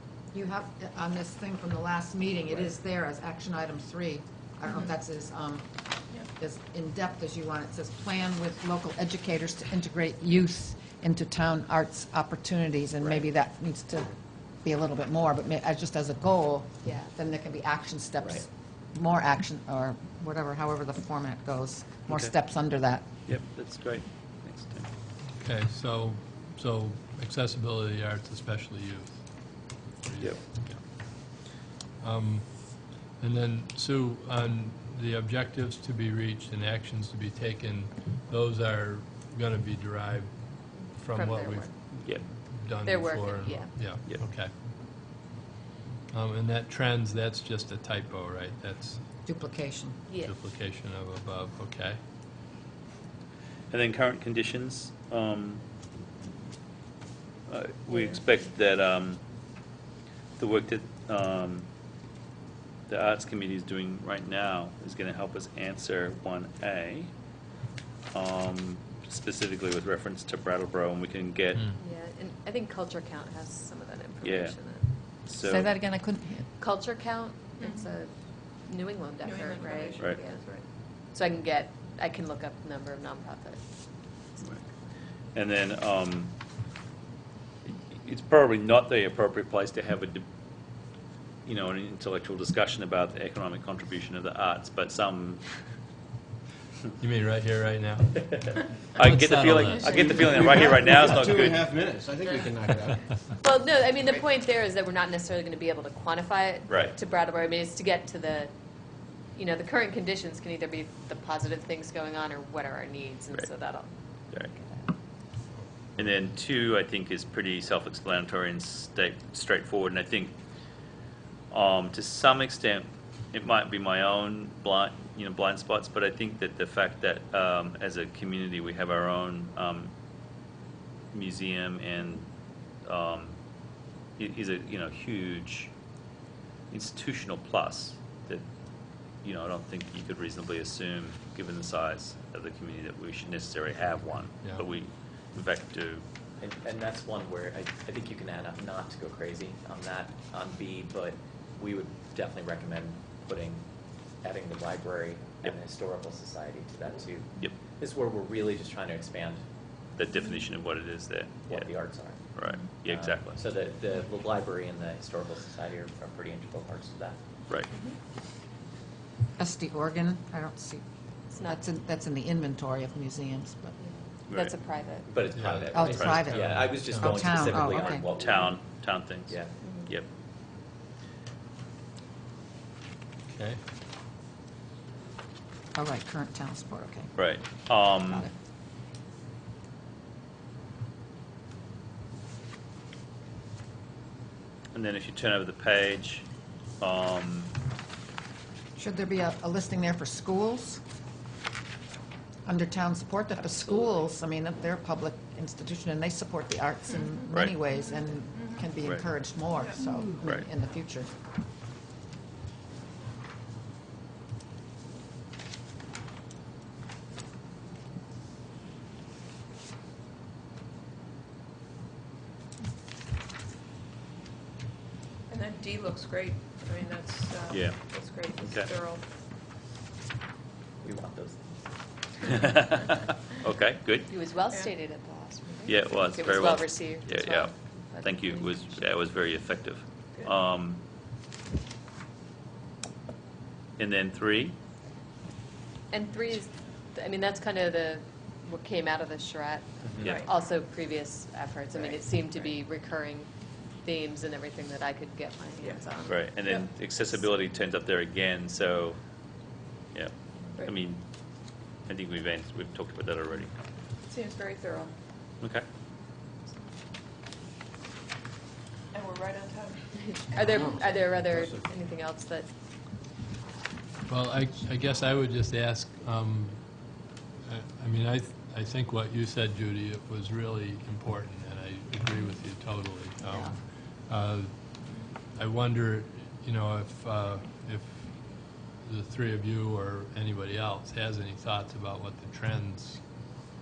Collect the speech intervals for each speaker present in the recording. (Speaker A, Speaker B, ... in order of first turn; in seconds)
Speaker A: 0.3-23.1, 49.2-50.0, 75.4-76.5, 169.4-173.8, 175.7-178.1, 185.8-187.1, 198.8-200.8, 202.4-211.1, 283.3-283.6
Speaker B: 16.8-17.1, 40.7-41.7, 42.7-43.9, 50.1-50.4, 71.7-75.0, 76.6-83.6, 99.8-100.1, 103.4-108.5, 109.3-114.9, 171.3-171.6, 173.8-175.2, 179.6-179.9, 234.1-238.8, 245.9-253.3, 253.8-256.6, 269.9-272.5
Speaker C: 22.1-22.3, 23.2-24.9, 30.2-30.8, 42.0-42.3, 43.9-44.2, 53.7-55.6, 57.5-59.2, 60.4-61.7, 62.9-67.1, 68.1-71.7, 74.2-75.8, 85.3-86.3, 87.7-90.2, 91.4-95.5, 98.9-101.8, 116.0-120.3, 121.5-129.9, 131.1-132.3, 132.8-133.4, 134.2-135.7, 136.7-138.4, 139.2-146.0, 159.9-163.4, 174.3-174.5, 175.9-176.6, 177.8-180.1, 187.2-188.3, 194.7-196.2, 196.8-197.5, 227.5-228.7, 232.2-234.2, 235.7-240.8, 243.8-244.6, 250.0-250.3, 256.1-259.0, 259.9-261.1, 261.9-263.5, 265.4-265.6
Speaker D: 25.4-31.4, 32.0-44.5, 46.1-49.0, 50.2-52.0, 97.0-100.4, 175.3-175.7, 176.2-177.6, 183.3-183.6, 274.1-293.3
Speaker E: 79.3-80.6, 225.3-229.1, 264.1-264.9, 268.9-269.9
Speaker F: 99.9-103.2, 270.5-271.7
Speaker G: 146.4-153.7, 154.2-159.4, 161.5-162.2, 162.8-167.2, 175.1-178.6, 203.3-204.1, 230.8-231.6, 249.8-250.2, 251.8-252.5